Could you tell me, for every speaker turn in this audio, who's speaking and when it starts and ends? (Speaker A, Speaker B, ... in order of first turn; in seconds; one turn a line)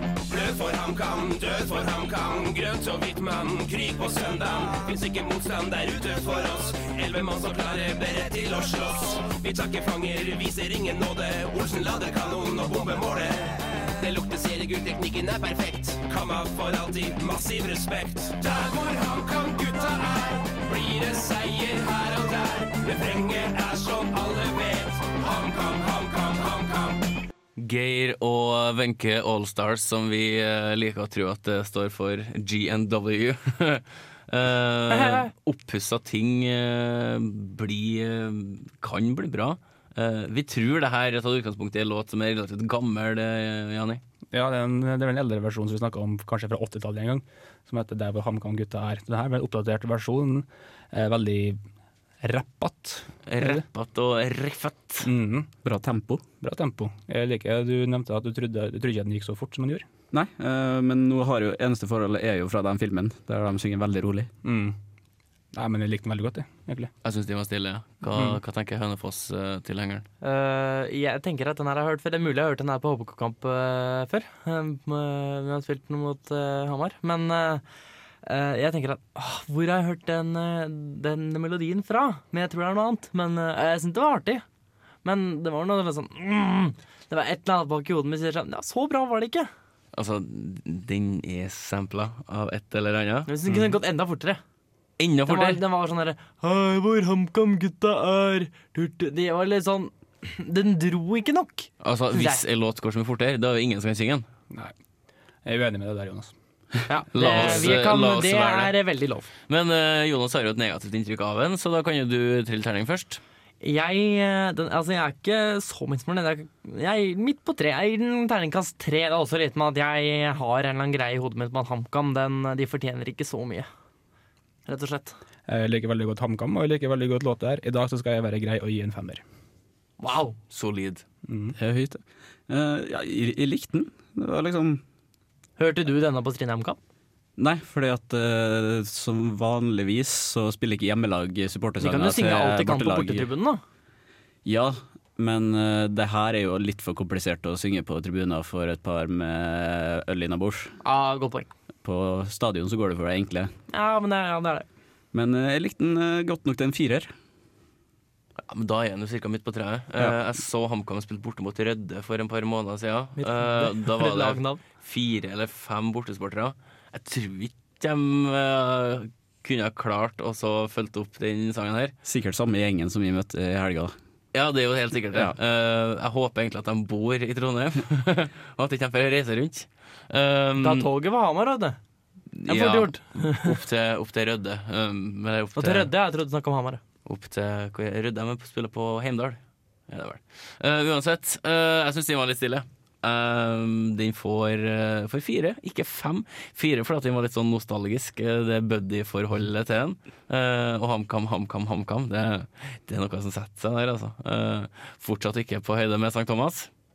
Speaker A: 0.2-27.1
Speaker B: 27.6-44.0
Speaker C: 34.9-35.3
Speaker D: 44.3-51.6
Speaker D: 52.2-53.6
Speaker B: 53.3-55.1
Speaker D: 55.0-55.5
Speaker E: 55.6-56.2
Speaker D: 56.4-59.9
Speaker E: 60.1-64.3
Speaker D: 64.4-64.8
Speaker D: 65.5-66.9
Speaker B: 67.0-70.0
Speaker D: 68.1-68.4
Speaker C: 70.2-77.6
Speaker C: 78.2-84.4
Speaker C: 85.0-89.5
Speaker B: 89.9-93.3
Speaker C: 93.3-94.4
Speaker B: 95.0-95.6
Speaker C: 95.3-102.4
Speaker B: 101.8-104.3
Speaker D: 105.5-106.3
Speaker C: 106.9-109.3
Speaker B: 107.1-108.7
Speaker B: 109.5-113.2
Speaker C: 113.6-123.7
Speaker C: 124.7-125.2
Speaker D: 125.5-129.2
Speaker C: 130.0-130.4
Speaker B: 130.5-131.0
Speaker D: 131.3-131.6
Speaker E: 131.6-134.8
Speaker C: 135.6-136.8
Speaker E: 137.4-143.3
Speaker C: 141.8-143.6
Speaker E: 144.4-150.8
Speaker C: 150.8-151.5
Speaker E: 151.8-153.5
Speaker C: 153.7-154.7
Speaker E: 155.1-157.1
Speaker B: 158.5-171.9
Speaker C: 163.2-164.6
Speaker E: 172.1-173.9
Speaker B: 174.3-180.9
Speaker C: 180.6-181.8
Speaker B: 182.4-185.9
Speaker C: 182.5-183.5
Speaker C: 185.6-186.8
Speaker B: 187.1-206.7